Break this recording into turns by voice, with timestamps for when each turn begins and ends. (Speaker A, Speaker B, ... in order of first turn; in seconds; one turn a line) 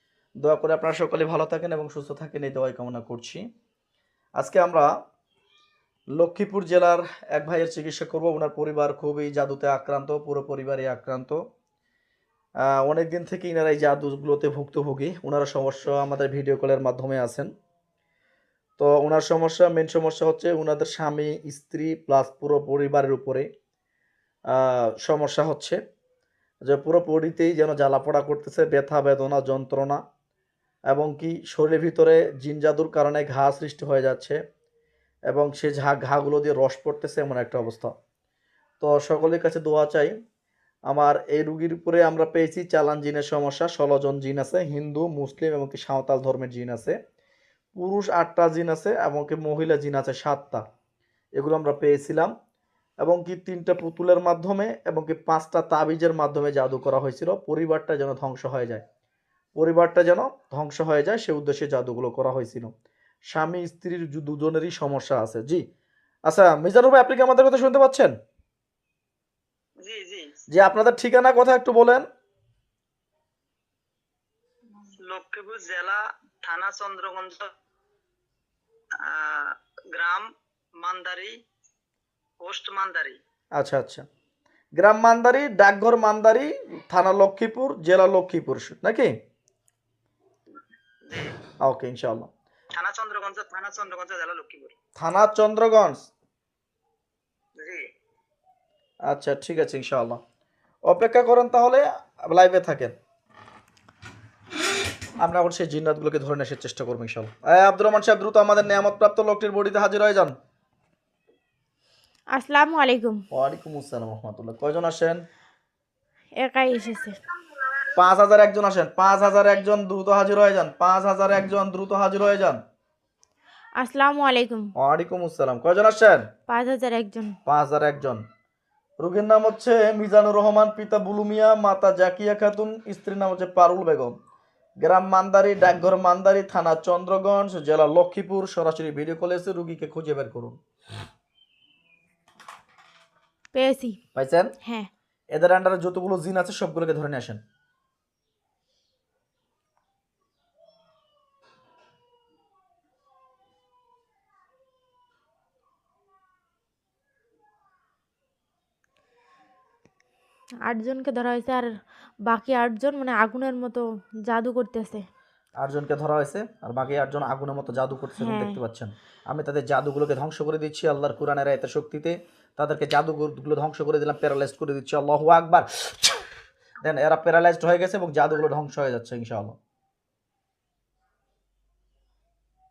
Speaker A: 0.4-3.4
Speaker A: 4.4-4.9
Speaker A: 6.2-11.4
Speaker A: 12.7-17.5
Speaker A: 18.8-23.5
Speaker A: 24.5-25.8
Speaker A: 26.6-30.0
Speaker A: 30.9-34.4
Speaker A: 35.3-37.9
Speaker A: 38.8-40.1
Speaker A: 40.9-47.0
Speaker A: 47.8-50.6
Speaker A: 51.4-52.3
Speaker A: 53.0-58.8
Speaker A: 59.6-62.7
Speaker A: 63.3-65.6
Speaker A: 66.3-68.1
Speaker B: 69.8-70.4
Speaker A: 70.5-72.0
Speaker B: 75.0-77.5
Speaker B: 79.0-81.4
Speaker B: 82.4-83.2
Speaker A: 83.6-84.0
Speaker A: 84.8-89.1
Speaker B: 91.0-91.4
Speaker A: 91.6-92.3
Speaker B: 92.7-94.7
Speaker A: 95.0-96.1
Speaker B: 97.6-97.9
Speaker A: 99.1-100.2
Speaker A: 100.9-102.9
Speaker A: 105.2-110.3
Speaker C: 112.3-113.2
Speaker A: 113.3-115.2
Speaker C: 116.4-117.2
Speaker A: 117.9-122.6
Speaker C: 123.8-124.7
Speaker A: 124.8-126.2
Speaker C: 126.5-127.4
Speaker A: 127.5-128.2
Speaker A: 129.0-134.1
Speaker A: 134.8-140.6
Speaker C: 143.5-144.0
Speaker A: 144.2-144.5
Speaker C: 144.6-144.9
Speaker A: 145.3-147.4
Speaker C: 160.7-161.7
Speaker C: 162.2-165.1
Speaker A: 165.6-176.2
Speaker C: 168.2-168.6
Speaker A: 176.8-179.6